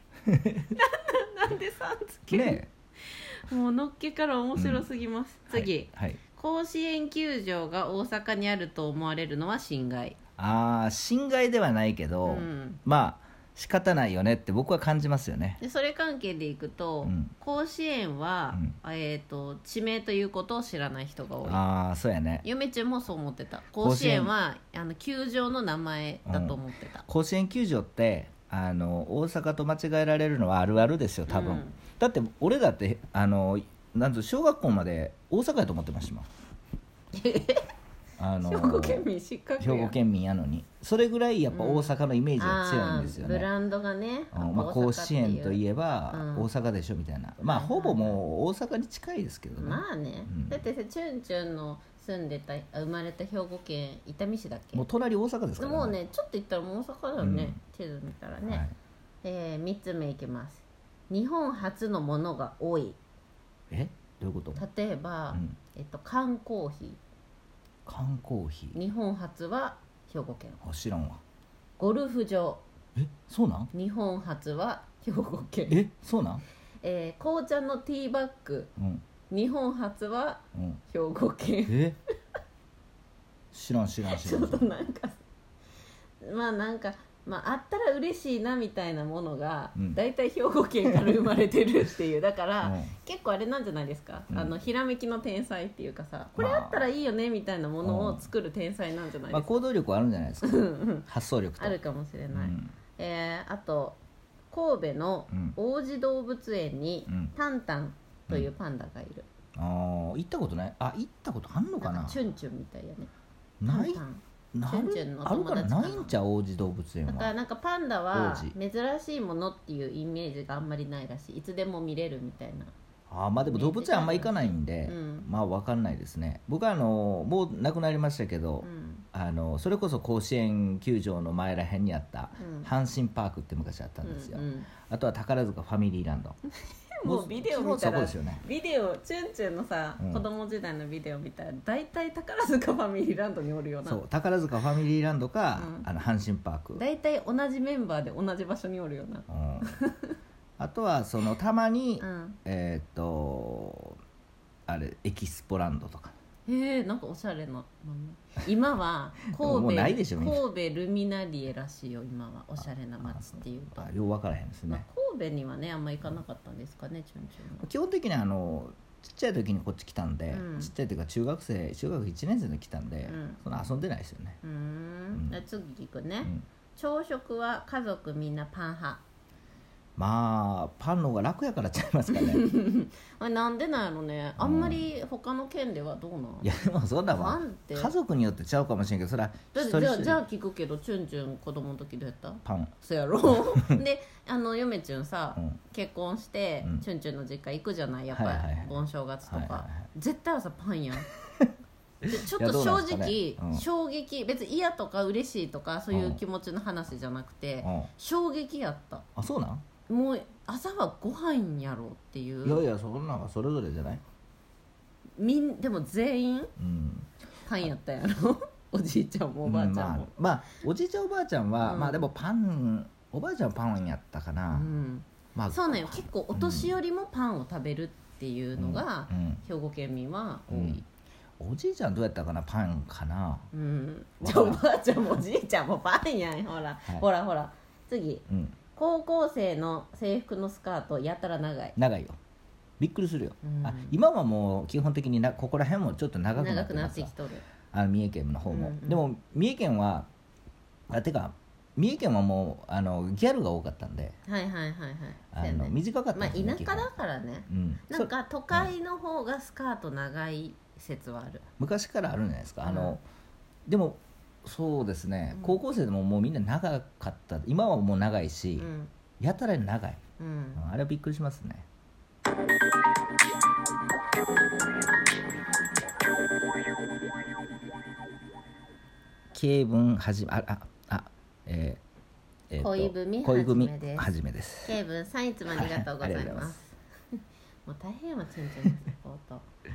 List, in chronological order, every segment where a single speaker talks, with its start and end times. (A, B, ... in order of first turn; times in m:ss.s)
0:00.2-0:00.7 A
0:00.7-0:10.2 B
0:02.3-0:02.7 A
0:04.6-0:04.9 A
0:05.5-0:06.2 A
0:10.4-0:15.6 A
0:12.2-0:12.8 B
0:15.6-0:21.6 B
0:17.0-0:17.3 A
0:21.4-0:22.4 A
0:22.4-0:27.0 B
0:23.8-0:24.3 A
0:26.2-0:36.3 A
0:31.3-0:31.8 B
0:37.1-0:37.7 B
0:38.2-0:39.0 A
0:38.4-0:39.9 B
0:39.6-0:43.5 A
0:41.5-0:45.6 B
0:44.3-0:50.6 A
0:46.1-0:46.5 B
0:47.4-0:48.2 B
0:49.6-0:54.8 B
0:54.7-0:56.0 A
0:55.6-0:58.6 B
0:57.2-0:57.6 A
0:58.4-0:58.7 A
0:59.2-1:03.0 B
1:03.7-1:04.6 A
1:04.6-1:07.0 B
1:07.8-1:08.8 A
1:08.7-1:10.6 B
1:10.6-1:11.2 A
1:11.8-1:12.6 B
1:13.0-1:13.7 A
1:13.7-1:15.8 B
1:15.7-1:16.4 A
1:16.8-1:18.7 B
1:18.8-1:19.0 A
1:19.3-1:21.8 B
1:20.5-1:20.8 A
1:21.7-1:22.0 A
1:23.5-1:24.7 A
1:24.0-1:25.2 B
1:26.2-1:39.6 B
1:32.6-1:32.9 A
1:36.3-1:36.8 A
1:37.8-1:38.3 A
1:39.3-1:41.8 A
1:40.4-1:41.0 B
1:41.6-1:44.0 B
1:42.3-1:42.7 A
1:44.5-1:49.2 B
1:45.3-1:45.6 A
1:47.1-1:47.3 A
1:49.6-1:52.2 A
1:51.8-1:53.1 B
1:53.6-1:54.0 A
1:53.7-1:56.2 B
1:54.5-1:57.3 A
1:57.1-2:02.7 B
1:58.1-1:58.5 A
2:03.1-2:16.4 A
2:03.4-2:05.3 B
2:08.6-2:09.0 B
2:12.4-2:12.7 B
2:14.0-2:14.7 B
2:16.9-2:24.0 B
2:17.0-2:18.4 A
2:20.0-2:20.2 A
2:23.8-2:26.8 A
2:25.6-2:25.9 B
2:26.8-2:30.2 B
2:29.3-2:29.7 A
2:30.6-2:34.0 A
2:32.0-2:32.4 B
2:34.7-2:36.1 A
2:36.5-2:43.9 B
2:39.4-2:40.4 A
2:43.0-2:44.8 A
2:44.7-2:47.7 B
2:47.6-2:54.4 A
2:50.3-2:50.7 B
2:53.1-2:53.4 B
2:54.4-2:59.0 B
3:00.0-3:02.5 A
3:02.1-3:06.5 B
3:04.4-3:04.9 A
3:06.4-3:10.2 A
3:07.1-3:07.9 B
3:09.5-3:21.1 B
3:12.4-3:12.7 A
3:18.1-3:19.8 A
3:22.0-3:23.6 A
3:22.0-3:29.0 B
3:25.9-3:26.2 A
3:27.6-3:27.9 A
3:29.2-3:29.6 A
3:29.9-3:32.6 B
3:32.4-3:34.0 A
3:35.2-3:36.5 B
3:36.6-3:37.1 A
3:37.4-3:40.1 B
3:39.4-3:44.7 A
3:41.6-3:42.1 B
3:44.5-3:50.8 B
3:45.3-3:46.7 A
3:48.6-3:49.4 A
3:50.5-3:50.8 A
3:51.4-3:53.5 A
3:53.5-3:58.2 B
3:54.2-3:54.6 A
3:58.3-3:58.6 A
3:58.7-4:01.8 B
4:01.8-4:02.2 A
4:02.8-4:07.1 A
4:03.4-4:04.0 B
4:06.4-4:07.4 B
4:07.7-4:10.1 A
4:08.5-4:09.1 B
4:10.9-4:14.1 A
4:14.2-4:21.4 B
4:15.3-4:16.9 A
4:17.5-4:18.7 A
4:21.6-4:23.0 A
4:22.6-4:23.0 B
4:23.6-4:28.7 A
4:25.3-4:25.6 B
4:28.6-4:28.9 B
4:29.2-4:30.0 A
4:30.2-4:30.6 B
4:30.6-4:31.6 A
4:39.3-4:41.8 A
4:42.5-4:44.8 A
4:42.6-4:44.1 B
4:44.6-4:49.4 B
4:45.5-4:46.6 A